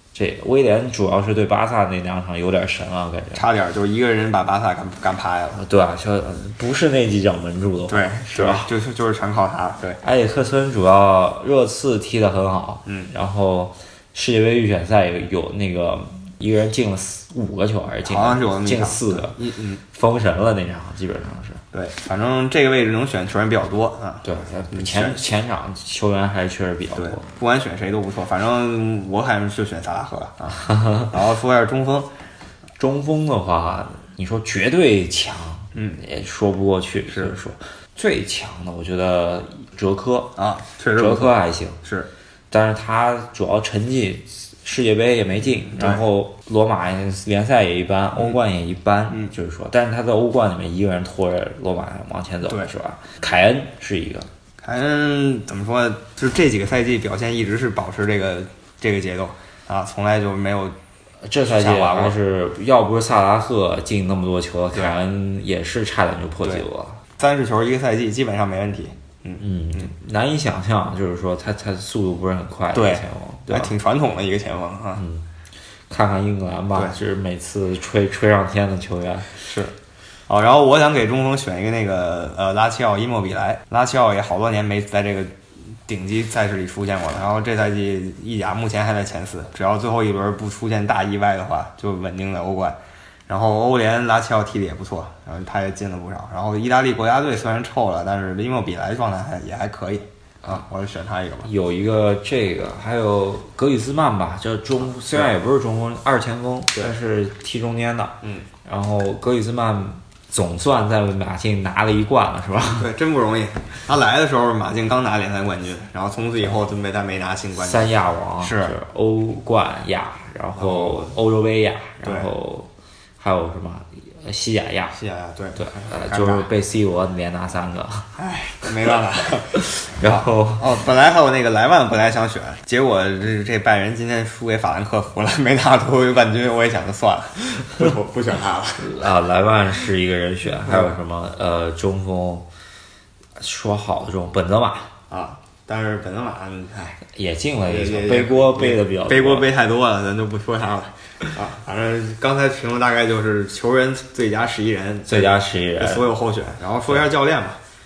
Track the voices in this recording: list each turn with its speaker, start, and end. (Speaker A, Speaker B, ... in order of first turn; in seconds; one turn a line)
Speaker A: 0.1-3.5
Speaker B: 3.3-5.6
Speaker A: 5.5-8.7
Speaker B: 7.9-10.0
Speaker A: 10.0-21.6
Speaker B: 18.0-19.8
Speaker B: 21.7-25.2
Speaker A: 24.2-27.3
Speaker B: 27.0-32.1
Speaker A: 30.8-31.1
Speaker A: 32.8-40.4
Speaker B: 35.7-36.0
Speaker B: 37.1-37.4
Speaker B: 40.4-42.1
Speaker A: 40.9-41.8
Speaker A: 42.5-54.3
Speaker B: 45.7-46.0
Speaker B: 54.6-60.8
Speaker A: 61.2-67.0
Speaker B: 61.5-62.2
Speaker B: 67.2-69.9
Speaker A: 69.4-73.7
Speaker B: 72.7-75.0
Speaker A: 75.0-75.2
Speaker A: 75.9-79.3
Speaker B: 79.4-79.7
Speaker B: 80.3-85.4
Speaker B: 85.9-101.5
Speaker A: 101.4-112.9
Speaker B: 112.7-118.7
Speaker A: 117.6-125.0
Speaker B: 120.6-121.1
Speaker B: 122.0-122.3
Speaker B: 125.0-126.5
Speaker A: 125.6-128.1
Speaker B: 128.2-139.0
Speaker A: 129.6-130.7
Speaker A: 138.8-142.5
Speaker A: 143.4-144.9
Speaker B: 145.1-147.0
Speaker A: 147.1-149.5
Speaker B: 147.6-157.6
Speaker A: 155.1-156.1